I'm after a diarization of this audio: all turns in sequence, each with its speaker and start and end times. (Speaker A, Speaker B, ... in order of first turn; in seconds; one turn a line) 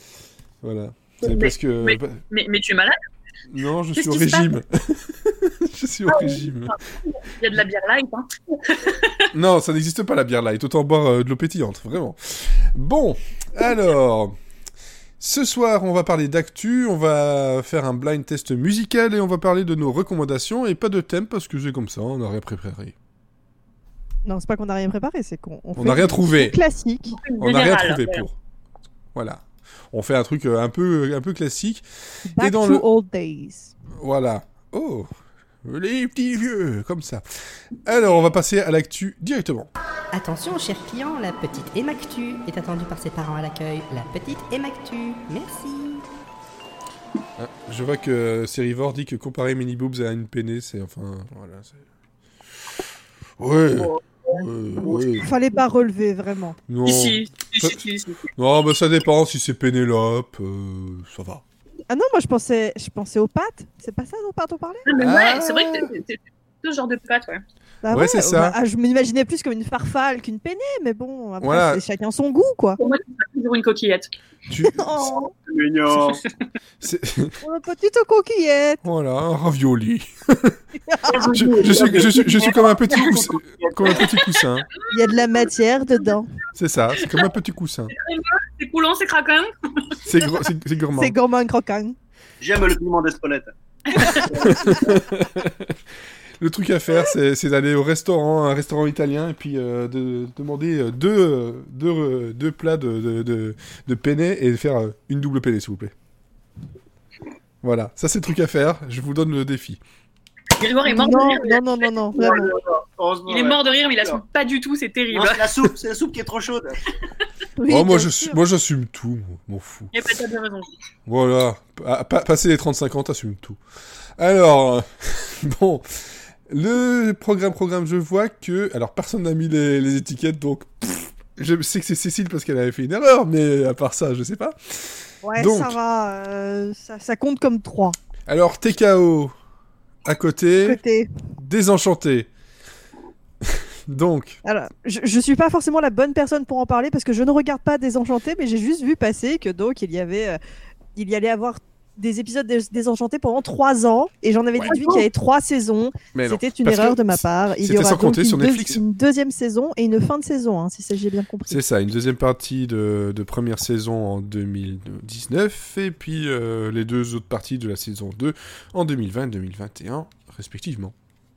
Speaker A: 0.6-2.2
Speaker B: 1.2-3.0
Speaker A: 3.5-6.8
Speaker B: 4.0-4.5
Speaker B: 6.1-9.3
Speaker A: 9.3-14.3
Speaker A: 15.2-22.9
Speaker C: 24.2-27.2
Speaker A: 25.8-26.6
Speaker B: 27.1-28.2
Speaker A: 27.4-28.4
Speaker A: 29.1-31.9
Speaker C: 32.3-33.7
Speaker A: 32.4-32.8
Speaker A: 34.0-35.1
Speaker A: 35.6-39.7
Speaker D: 40.1-46.0
Speaker A: 47.4-51.8
Speaker A: 53.4-55.3
Speaker E: 54.9-55.1
Speaker C: 55.2-56.6
Speaker A: 56.7-57.8
Speaker B: 56.8-58.2
Speaker A: 58.4-61.4
Speaker C: 61.9-64.9
Speaker B: 64.8-67.4
Speaker A: 64.9-65.9
Speaker C: 67.8-72.8
Speaker A: 67.9-68.5
Speaker A: 71.4-71.8
Speaker B: 72.8-74.1
Speaker A: 74.5-75.1
Speaker C: 74.7-75.3
Speaker E: 75.5-76.2
Speaker A: 76.8-77.4
Speaker C: 77.4-78.8
Speaker A: 78.8-80.6
Speaker C: 80.9-81.2
Speaker E: 81.1-84.0
Speaker A: 81.3-84.7
Speaker B: 83.9-84.4
Speaker C: 84.9-86.3
Speaker A: 86.5-87.9
Speaker B: 87.0-87.2
Speaker B: 87.9-90.0
Speaker A: 90.0-91.2
Speaker C: 91.0-92.0
Speaker E: 92.4-95.0
Speaker B: 93.9-94.3
Speaker A: 94.4-105.9
Speaker A: 107.6-109.8
Speaker B: 110.6-111.6
Speaker C: 110.8-112.5
Speaker E: 112.1-114.2
Speaker B: 113.3-115.7
Speaker E: 115.1-116.9
Speaker C: 117.6-118.4
Speaker A: 117.7-119.9
Speaker B: 119.9-120.7
Speaker A: 121.0-123.6
Speaker A: 124.2-135.8
Speaker C: 135.2-137.9
Speaker A: 138.3-139.3
Speaker A: 140.0-140.8
Speaker C: 140.6-141.1
Speaker A: 141.4-142.3
Speaker A: 143.4-144.4
Speaker C: 144.4-150.4
Speaker C: 150.9-161.6
Speaker B: 154.7-155.0
Speaker A: 156.1-158.8
Speaker A: 161.5-170.9